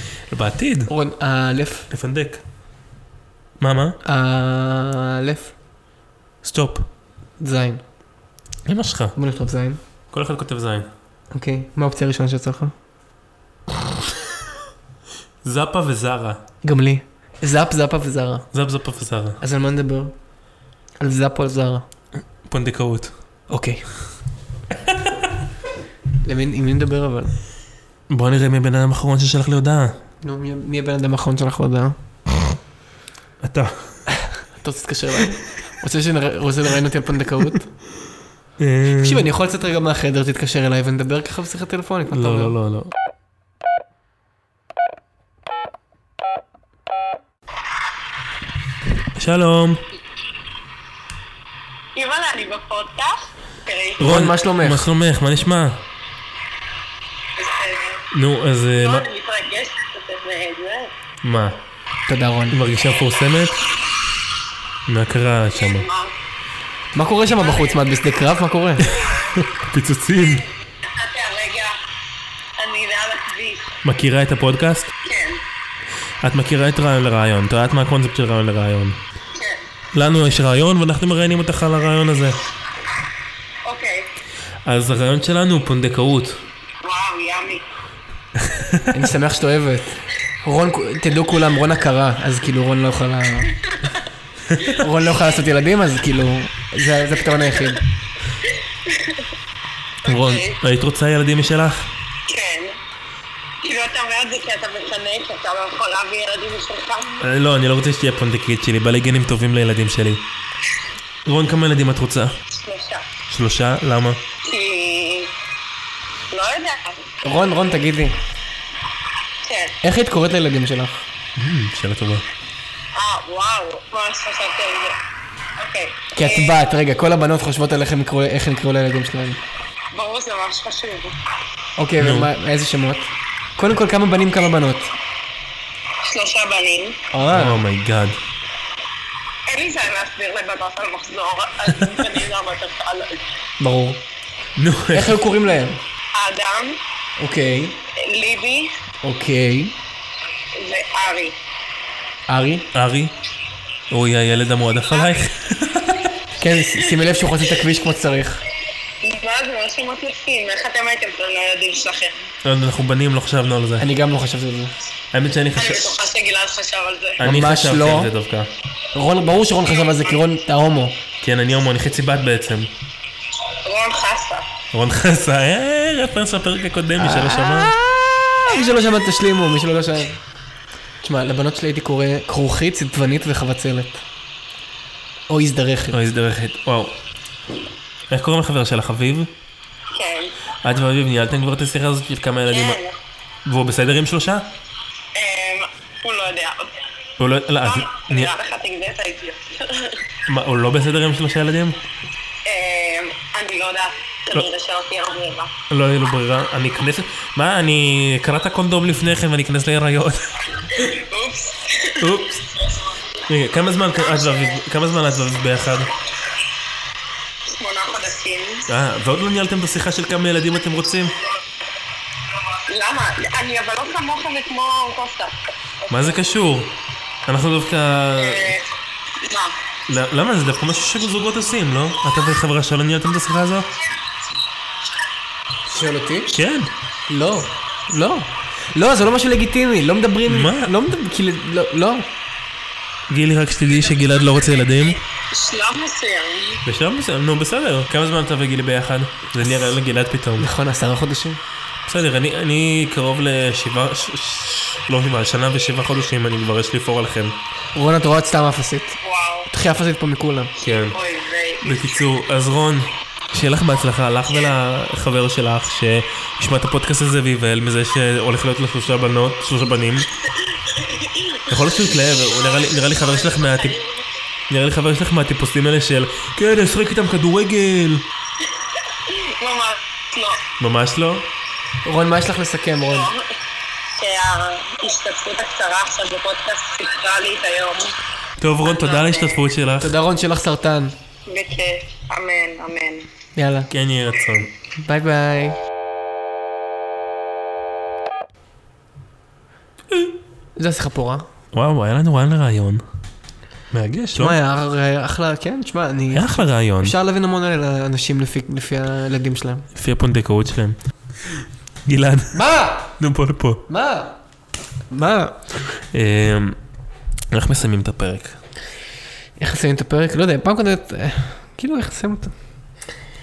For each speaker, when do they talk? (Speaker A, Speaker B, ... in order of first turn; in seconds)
Speaker A: 0.3-0.9, 1.9-2.4, 3.6-4.0, 6.4-6.9, 8.6-9.2, 10.1-10.9, 15.4-16.4, 18.5-19.4, 22.4-23.1, 28.1-30.0, 33.4-34.0, 38.6-39.3, 42.1-42.9, 49.1-49.8, 54.0-55.8, 58.1-59.1, 61.2-61.6, 62.5-63.6, 64.8-65.9, 69.0-70.5, 73.8-74.9, 76.2-79.0, 79.9-82.4, 84.6-86.4, 88.4-89.0, 100.0-101.9, 107.2-110.3, 111.2-112.4, 113.3-114.2, 121.3-122.2, 132.0-132.3, 137.3-138.2, 144.6-145.2, 152.7-153.1, 153.9-156.2, 162.4-163.9, 165.1-165.9, 167.2-168.5, 171.2-172.7, 174.7-177.7, 185.9-187.0, 188.1-189.3, 190.6-192.8, 193.4-194.6, 197.2-198.3, 200.3-201.8, 205.7-210.5, 212.0-212.5, 213.3-215.9, 218.7-221.2, 225.9-228.6, 229.9-233.7, 236.3-236.7, 240.2-240.7, 243.1-245.0, 246.6-250.5, 251.8-257.4, 260.6-261.0, 261.6-270.1, 271.5-273.8, 274.5-278.1, 280.6-281.3, 288.4-290.0, 293.7-294.5, 301.5-302.8, 303.7-304.4, 306.1-307.0, 309.7-312.4, 313.0-313.6, 315.9-316.6, 317.3-318.4
Speaker B: 0.9-1.9, 4.0-5.5, 7.4-7.8, 9.1-9.8, 11.3-12.7, 16.6-18.5, 19.4-20.1, 21.0-21.9, 23.5-23.9, 26.2-27.4, 30.2-31.9, 34.1-37.7, 38.9-42.5, 54.0-54.9, 62.1-62.6, 66.9-69.0, 88.9-93.6, 94.6-97.8, 117.2-118.2, 119.8-121.0, 126.1-129.4, 131.8-134.9, 137.1-137.6, 143.6-144.0, 144.9-145.8, 147.2-147.8, 149.0-149.8, 152.3-152.7, 156.4-158.4, 163.8-164.8, 167.2-168.1, 168.9-171.0, 177.0-180.2, 181.0-184.0, 185.3-186.0, 235.7-236.4, 237.1-242.1, 250.4-251.4, 257.7-260.5, 281.8-283.1, 289.8-290.9, 293.4-293.7, 294.8-295.6, 300.6-301.3, 304.1-309.7, 312.3-313.0, 313.7-314.2, 314.9-315.6, 319.4-322.3
Speaker C: 51.9-54.2, 57.4-58.0, 58.8-60.9, 65.5-66.1, 67.4-67.9, 70.3-71.8, 72.6-73.7, 75.0-75.4, 79.3-79.6, 83.6-84.1, 86.8-87.6, 98.8-99.3, 100.0-100.6, 102.2-102.8, 103.6-107.2, 112.5-113.1, 114.4-115.3, 116.3-117.1, 119.4-119.8, 122.9-125.0, 125.6-126.6, 129.9-131.2, 136.0-137.0, 139.5-143.2, 146.1-146.8, 147.9-148.8, 150.5-151.4, 159.0-162.3, 165.5-167.2, 169.7-170.2, 173.6-174.5, 189.9-190.3, 192.5-193.0, 195.1-196.8, 197.6-200.1, 202.4-205.5, 210.7-213.0, 213.9-214.6, 217.4-218.7, 222.6-226.2, 228.2-229.6, 245.3-246.6, 259.0-259.5, 260.9-262.1, 270.5-274.1, 278.7-280.4, 282.8-283.2, 283.9-287.9, 288.6-289.4, 291.3-293.1